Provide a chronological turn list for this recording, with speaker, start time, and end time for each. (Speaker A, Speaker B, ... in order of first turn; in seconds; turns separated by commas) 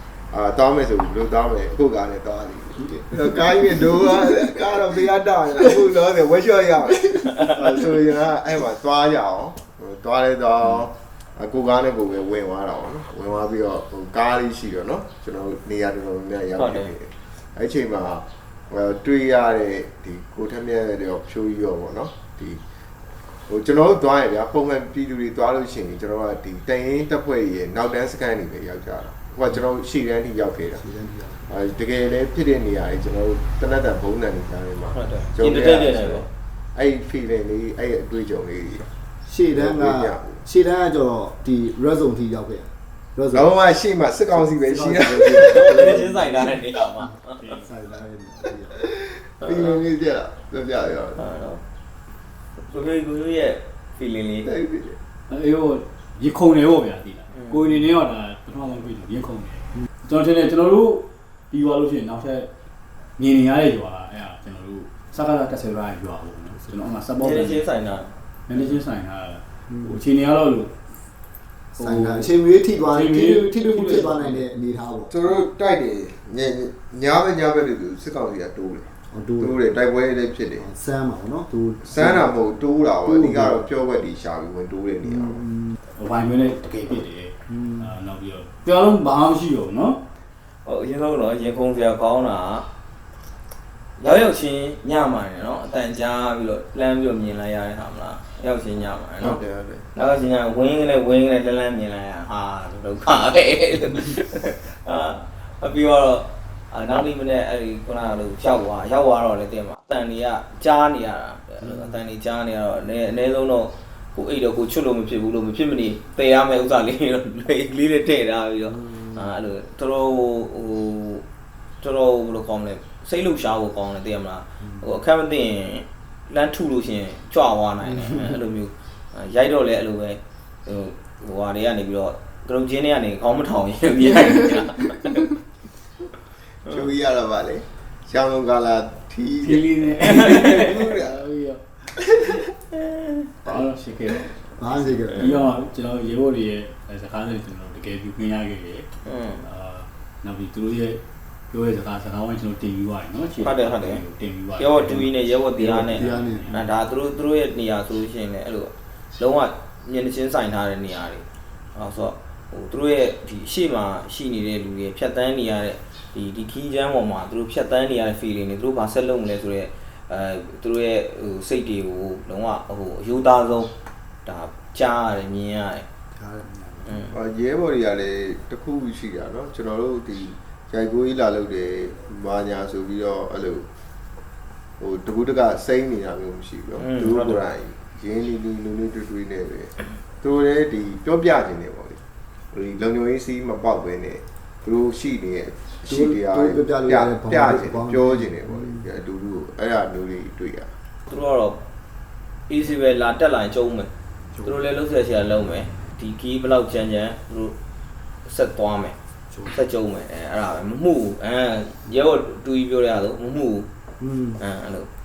Speaker A: 0.3-22.6, Speaker B: 2.8-4.0, Speaker C: 16.6-16.9, Speaker A: 23.5-30.8, Speaker B: 30.8-31.5, Speaker A: 31.5-38.9, Speaker C: 34.9-36.3, Speaker B: 39.3-43.5, Speaker A: 39.5-40.4, Speaker A: 43.3-46.0, Speaker B: 44.3-48.7, Speaker C: 45.5-47.4, Speaker A: 48.7-51.2, Speaker C: 51.1-51.6, Speaker C: 52.6-54.5, Speaker A: 54.4-55.0, Speaker D: 55.3-62.5, Speaker D: 63.2-67.6, Speaker C: 67.2-68.1, Speaker D: 68.5-70.7, Speaker B: 71.8-75.1, Speaker D: 71.8-74.4, Speaker A: 75.1-80.7, Speaker B: 79.1-79.6, Speaker B: 80.6-82.4, Speaker A: 81.8-85.4, Speaker B: 83.0-83.7, Speaker B: 85.0-85.8, Speaker D: 85.9-90.0, Speaker B: 87.5-87.9, Speaker C: 90.6-92.7, Speaker C: 94.0-99.4, Speaker A: 99.2-99.9, Speaker C: 99.9-121.2, Speaker B: 118.8-119.1, Speaker C: 121.8-135.3, Speaker A: 136.7-141.2, Speaker D: 139.4-142.4, Speaker D: 143.4-144.4, Speaker B: 144.6-145.4, Speaker D: 145.1-155.1, Speaker C: 149.0-149.4, Speaker C: 153.4-154.0, Speaker C: 154.6-173.7, Speaker B: 155.6-156.5, Speaker D: 155.8-156.7, Speaker C: 174.2-175.8, Speaker B: 176.2-177.1, Speaker C: 176.8-177.1, Speaker A: 177.1-183.7, Speaker A: 184.8-192.0, Speaker C: 186.8-187.4, Speaker A: 192.5-200.7, Speaker B: 195.8-198.8, Speaker C: 201.1-201.6, Speaker C: 202.5-203.9, Speaker C: 204.4-207.5, Speaker C: 208.2-208.9, Speaker B: 209.3-209.6, Speaker C: 209.5-213.7, Speaker B: 214.0-214.4, Speaker C: 214.4-214.9